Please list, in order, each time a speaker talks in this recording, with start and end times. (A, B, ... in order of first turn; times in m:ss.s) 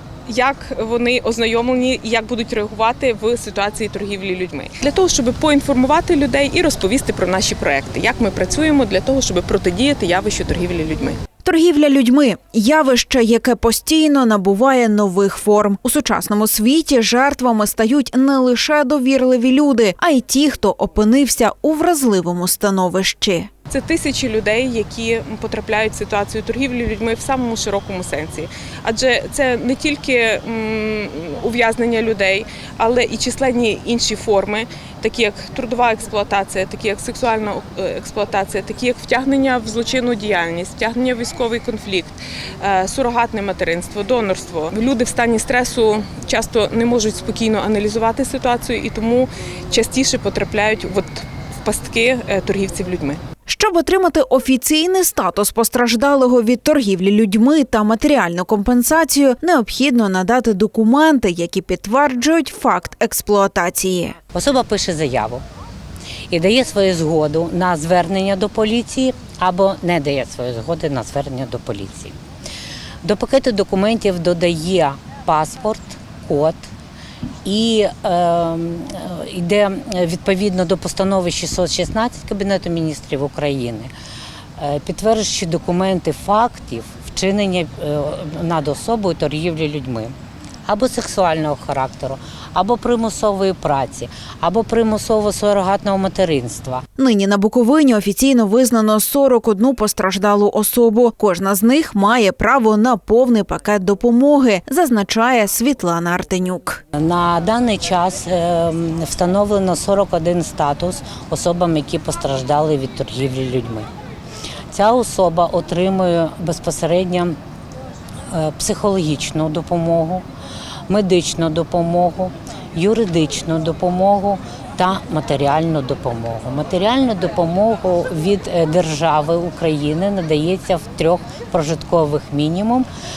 0:00.3-0:11.2 A
0:11.4-0:23.5 B
0:23.7-0:53.2 A
0:53.5-1:04.2 B
1:04.3-1:05.4 C
1:06.3-1:12.2 C
1:13.0-1:16.7 C
1:17.4-1:23.9 C
1:24.6-1:30.1 C
1:30.6-1:36.8 C
1:37.0-1:46.8 B
1:46.9-1:53.9 C
1:54.7-1:57.4 C
1:58.3-2:00.2 C
2:00.9-2:12.9 C